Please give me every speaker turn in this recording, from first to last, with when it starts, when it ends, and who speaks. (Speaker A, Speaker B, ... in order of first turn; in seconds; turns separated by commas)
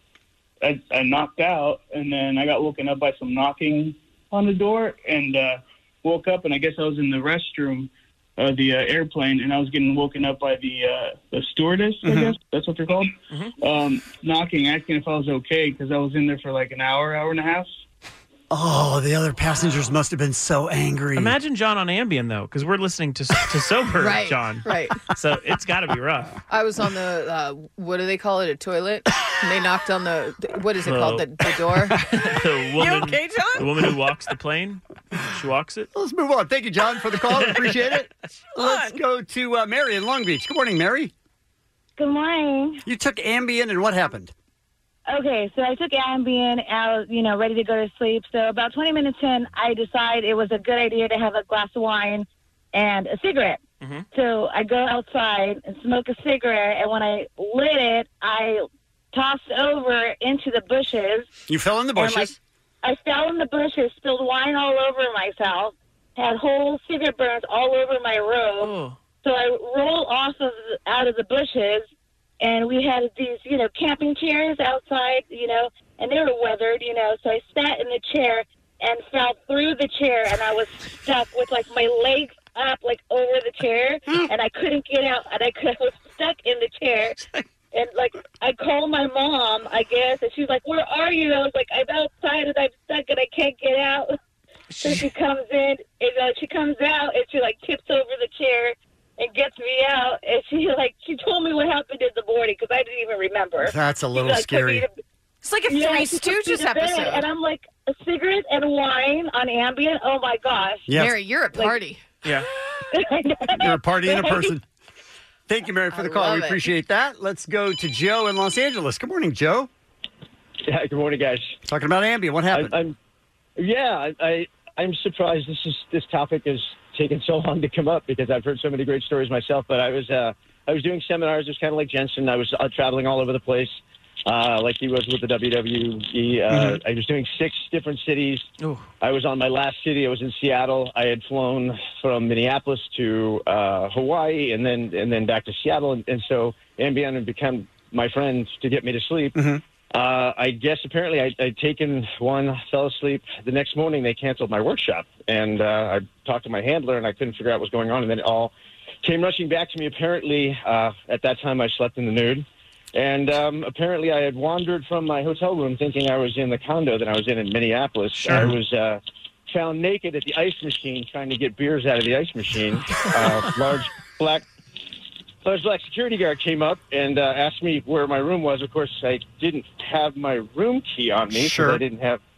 Speaker A: 0.6-17.7, Speaker B: 12.0-12.4, Speaker B: 18.5-21.4, Speaker C: 24.0-25.0, Speaker D: 24.0-24.3, Speaker D: 25.4-25.8, Speaker C: 26.5-33.7, Speaker D: 32.6-33.0, Speaker D: 33.9-34.3, Speaker B: 35.9-41.1, Speaker C: 38.6-39.0, Speaker E: 42.0-42.8, Speaker B: 42.9-44.3, Speaker E: 45.1-53.6, Speaker E: 54.1-61.3, Speaker B: 61.5-62.4, Speaker E: 62.0-62.3, Speaker E: 62.8-71.9, Speaker D: 68.6-68.9, Speaker E: 72.4-87.2, Speaker E: 87.7-94.1, Speaker E: 94.8-104.9, Speaker B: 103.6-104.9, Speaker C: 105.4-107.3, Speaker E: 105.7-110.9, Speaker B: 110.9-111.2, Speaker C: 110.9-112.0, Speaker E: 112.9-114.5, Speaker B: 113.6-114.6, Speaker B: 115.5-119.7, Speaker C: 115.9-116.7, Speaker F: 120.7-121.5, Speaker B: 121.7-122.8, Speaker F: 122.5-123.0, Speaker F: 123.6-138.5, Speaker B: 136.5-136.8, Speaker F: 139.0-158.5, Speaker B: 149.4-149.6, Speaker F: 159.0-174.4, Speaker D: 168.3-168.6, Speaker F: 175.4-182.2, Speaker B: 181.3-181.8